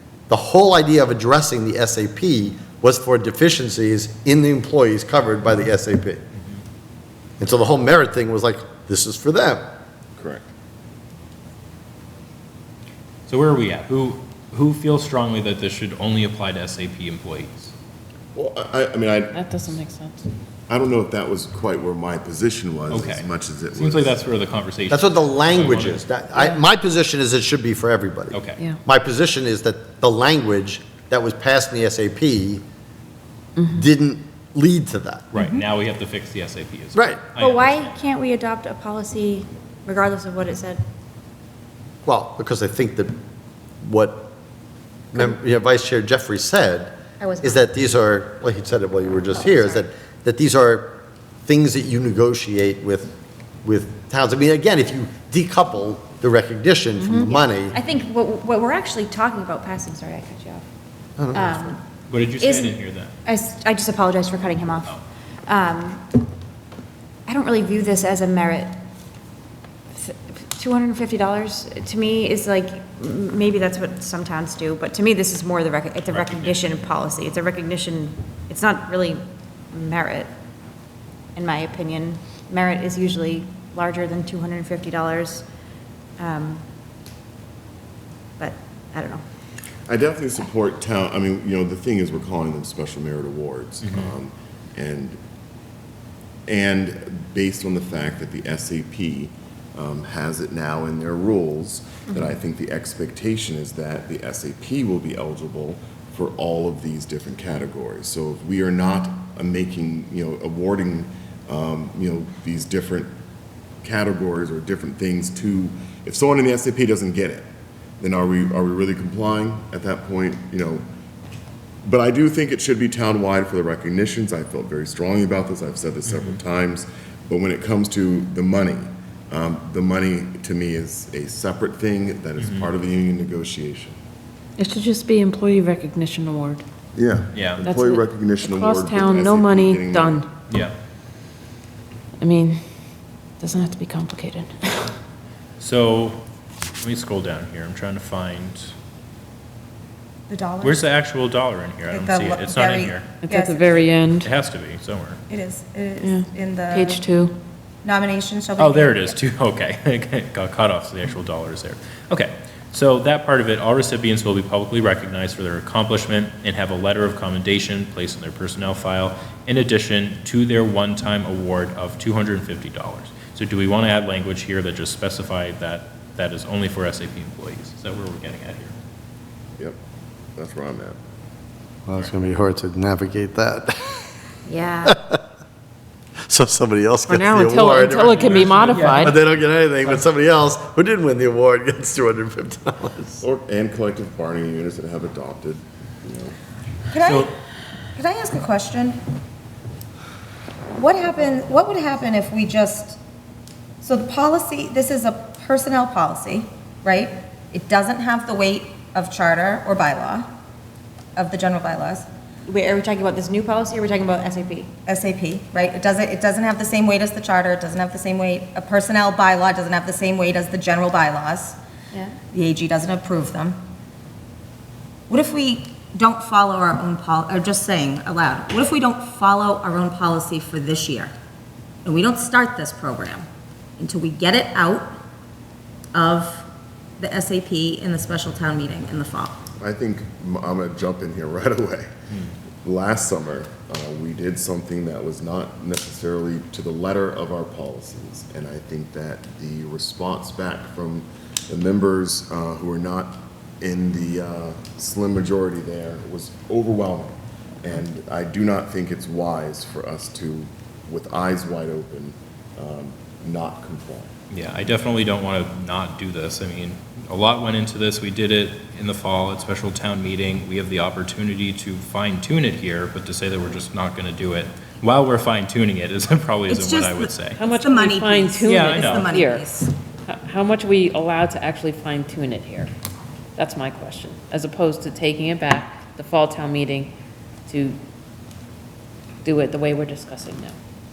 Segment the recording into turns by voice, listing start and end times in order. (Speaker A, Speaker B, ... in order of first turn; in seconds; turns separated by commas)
Speaker A: 0.3-6.2, Speaker A: 7.4-9.7, Speaker B: 10.2-10.4, Speaker C: 13.3-17.7, Speaker B: 18.3-19.4, Speaker D: 19.3-20.3, Speaker B: 20.7-24.2, Speaker C: 22.9-26.1, Speaker A: 24.9-32.6, Speaker C: 28.3-28.6, Speaker D: 33.6-33.9, Speaker A: 33.7-35.3, Speaker C: 35.3-38.0, Speaker E: 37.4-40.8, Speaker A: 42.0-43.2, Speaker A: 43.8-44.3, Speaker A: 45.1-57.8, Speaker E: 47.2-47.7, Speaker E: 49.4-49.6, Speaker E: 57.0-60.6, Speaker A: 61.2-61.7, Speaker E: 61.3-61.8, Speaker C: 62.1-63.1, Speaker E: 62.4-62.7, Speaker E: 63.2-66.2, Speaker E: 67.3-68.7, Speaker E: 69.9-80.3, Speaker C: 76.1-76.8, Speaker E: 81.3-85.5, Speaker E: 86.2-86.6, Speaker E: 88.4-89.2, Speaker B: 89.9-95.2, Speaker C: 93.8-94.1, Speaker B: 96.5-113.1, Speaker B: 113.8-117.5, Speaker B: 118.0-120.8, Speaker B: 121.8-134.0, Speaker C: 126.0-126.4, Speaker C: 132.4-132.7, Speaker D: 134.6-136.6, Speaker B: 136.9-140.2, Speaker C: 137.3-137.7, Speaker D: 137.6-140.3, Speaker C: 140.5-140.7, Speaker D: 142.2-142.6, Speaker D: 143.4-144.9, Speaker C: 145.6-146.2, Speaker C: 146.8-148.7, Speaker F: 150.3-150.8, Speaker C: 150.6-153.1, Speaker F: 151.9-153.9, Speaker D: 153.2-154.3, Speaker C: 154.2-155.2, Speaker F: 155.3-157.0, Speaker D: 156.0-157.3, Speaker F: 157.8-159.2, Speaker C: 158.6-178.7, Speaker B: 180.3-181.0, Speaker A: 181.9-184.0, Speaker E: 184.5-184.9, Speaker A: 184.8-185.2, Speaker A: 186.2-193.2, Speaker D: 187.1-189.2, Speaker C: 188.2-189.2, Speaker B: 193.2-196.3, Speaker F: 196.9-197.3, Speaker F: 197.9-199.0, Speaker F: 200.7-203.0, Speaker F: 203.8-210.3, Speaker F: 211.2-212.1, Speaker E: 212.4-214.7, Speaker F: 214.8-221.6, Speaker E: 221.9-222.2, Speaker F: 222.3-223.6, Speaker F: 225.1-231.1, Speaker F: 231.8-233.2, Speaker F: 233.8-234.9, Speaker F: 235.9-236.4, Speaker F: 237.0-239.4, Speaker B: 239.6-241.9, Speaker B: 242.6-264.1, Speaker C: 264.3-277.4, Speaker F: 276.5-279.7, Speaker D: 277.4-279.5, Speaker C: 278.4-279.1, Speaker D: 280.1-282.7, Speaker D: 283.4-286.9, Speaker D: 287.5-287.8, Speaker D: 289.2-290.6